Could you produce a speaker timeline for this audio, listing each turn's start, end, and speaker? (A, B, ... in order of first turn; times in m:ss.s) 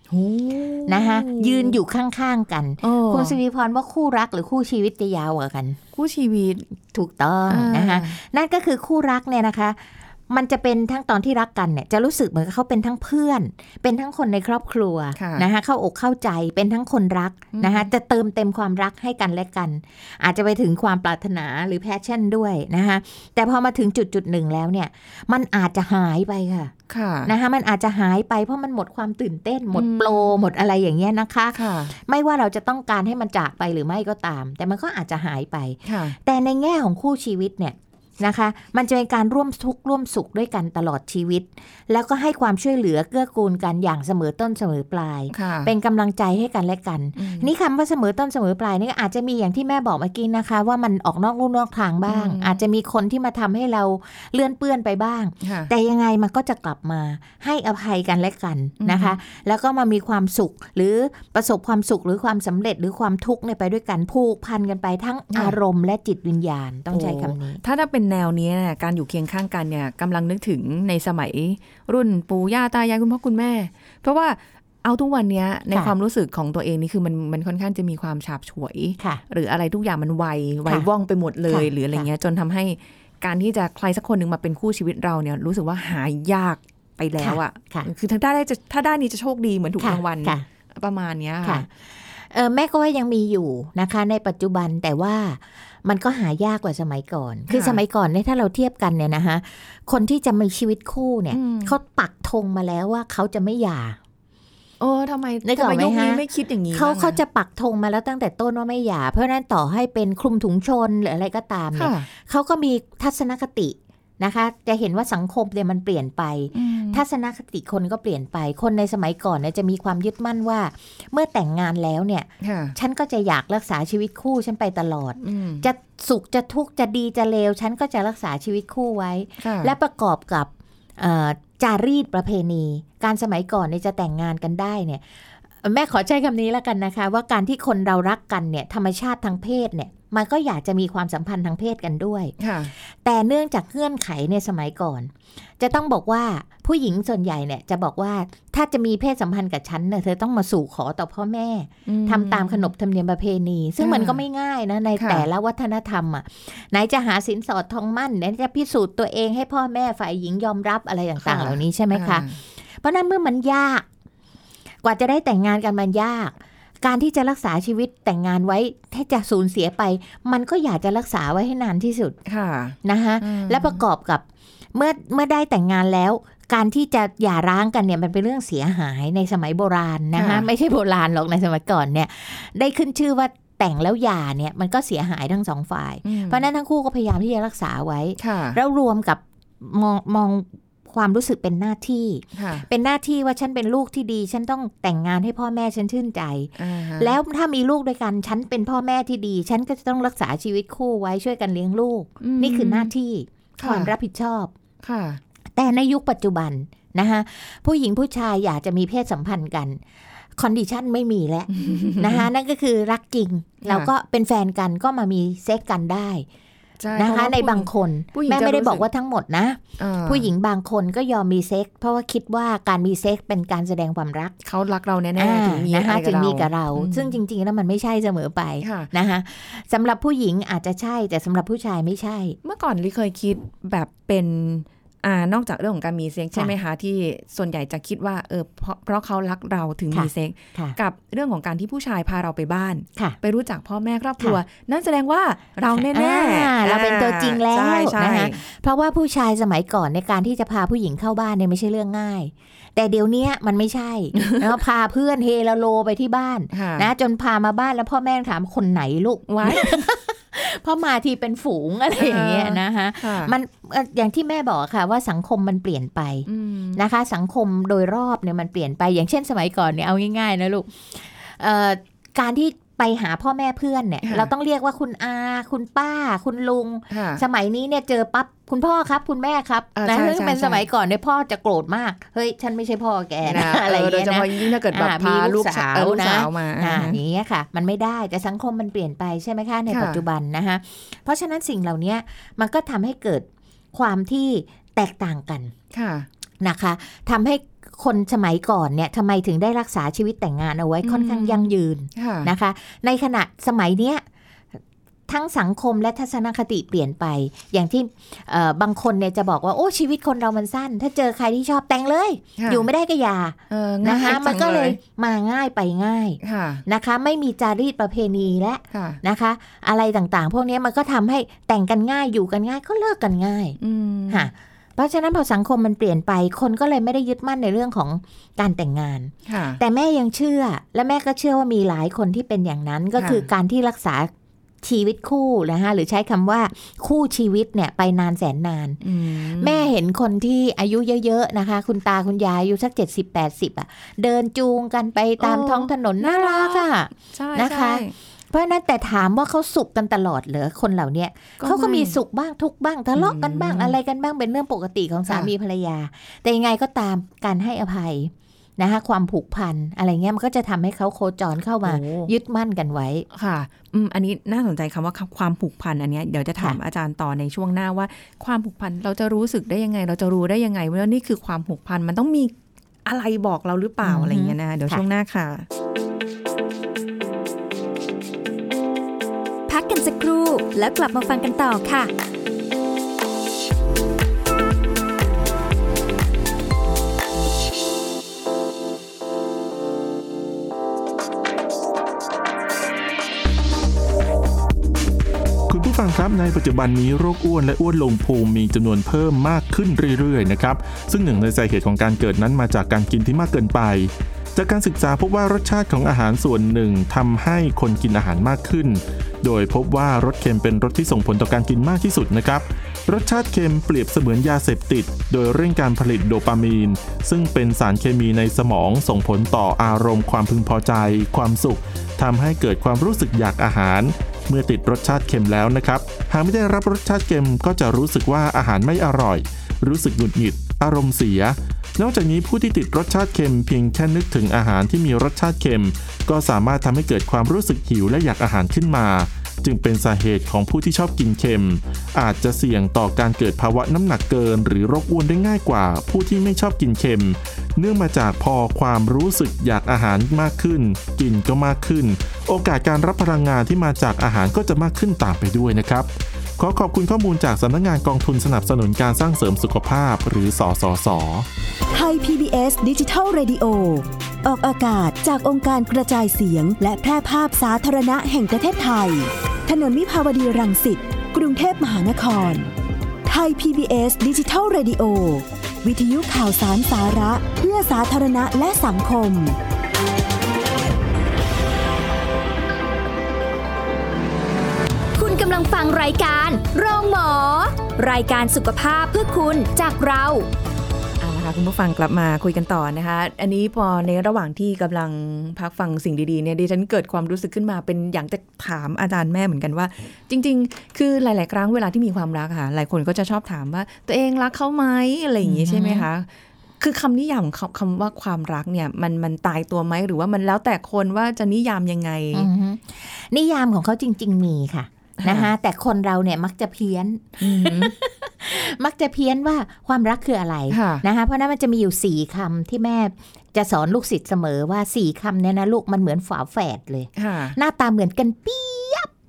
0:00.1-0:01.8 A
0:00.9-0:05.8 B
0:02.8-0:03.4 A
0:05.9-0:06.6 A
0:06.9-0:26.7 B
0:07.5-0:08.2 A
0:15.2-0:15.5 A
0:17.5-0:17.9 A
0:26.9-0:27.3 A
0:27.2-1:07.6 B
0:29.7-0:30.4 A
0:31.5-0:31.9 A
0:35.8-0:36.2 A
0:45.3-0:45.7 A
0:47.2-0:47.5 A
0:52.1-0:52.6 A
0:55.4-0:55.7 A
0:58.8-0:59.2 A
1:06.9-1:31.6 A
1:21.5-1:22.1 B
1:27.2-1:27.9 B
1:29.8-1:30.4 B
1:31.4-1:44.0 B
1:37.5-1:37.8 A
1:41.3-1:41.7 A
1:44.8-1:47.2 A
1:45.4-2:15.0 B
1:51.7-1:52.1 A
1:56.5-1:57.0 A
2:02.4-2:02.7 A
2:05.2-2:05.6 A
2:09.4-2:09.7 A
2:15.6-2:22.3 B
2:22.4-2:22.7 A
2:23.0-2:42.2 B
2:31.8-2:32.7 A
2:33.8-2:34.2 A
2:35.0-2:35.2 A
2:41.2-2:42.4 A
2:42.8-2:43.8 B
2:44.8-2:52.2 B
2:52.2-2:53.8 A
2:52.8-2:54.2 B
2:54.7-3:24.5 B
3:00.1-3:00.5 A
3:06.0-3:06.4 A
3:08.2-3:08.6 A
3:12.3-3:12.7 A
3:16.6-3:17.2 A
3:22.2-3:22.9 A
3:23.6-3:23.9 A
3:24.8-3:25.2 A
3:25.6-3:29.8 B
3:30.4-3:36.2 B
3:31.5-3:32.3 A
3:33.6-3:33.9 A
3:36.8-3:38.8 A
3:37.0-3:44.3 B
3:39.8-3:40.3 A
3:44.4-3:47.2 A
3:45.2-3:52.4 B
3:48.6-3:48.9 A
3:52.4-4:08.4 A
3:59.9-4:00.8 B
4:05.8-4:55.5 B
4:16.5-4:16.9 A
4:19.3-4:19.8 A
4:22.0-4:23.3 A
4:26.3-4:26.8 A
4:34.0-4:34.3 A
4:36.9-4:37.2 A
4:39.8-4:40.6 A
4:43.2-4:47.0 A
4:49.7-4:50.0 A
4:55.7-4:56.1 A
4:56.4-5:04.0 B
5:00.8-5:02.3 A
5:05.1-5:23.6 B
5:12.4-5:12.6 A
5:13.5-5:14.8 A
5:16.2-5:16.6 A
5:18.7-5:19.0 A
5:23.6-5:24.3 A
5:24.1-5:34.1 B
5:29.3-5:29.6 A
5:33.0-5:33.3 A
5:34.6-6:03.0 B
5:38.8-5:39.7 A
5:45.2-5:47.9 A
5:51.4-5:52.0 A
5:53.0-5:53.8 A
6:01.6-6:02.1 A
6:03.1-6:12.3 A
6:12.8-6:15.4 A
6:13.8-6:14.8 B
6:19.5-6:21.9 C
6:35.5-7:41.3 D
7:41.7-7:52.5 E
7:53.0-7:59.4 E
8:05.0-8:10.3 C
8:11.0-8:26.1 A
8:25.2-8:25.9 B
8:26.6-8:32.3 A
8:32.1-8:48.9 B
8:35.0-8:35.3 A
8:37.2-8:37.7 A
8:40.5-8:40.8 A
8:47.0-8:47.4 A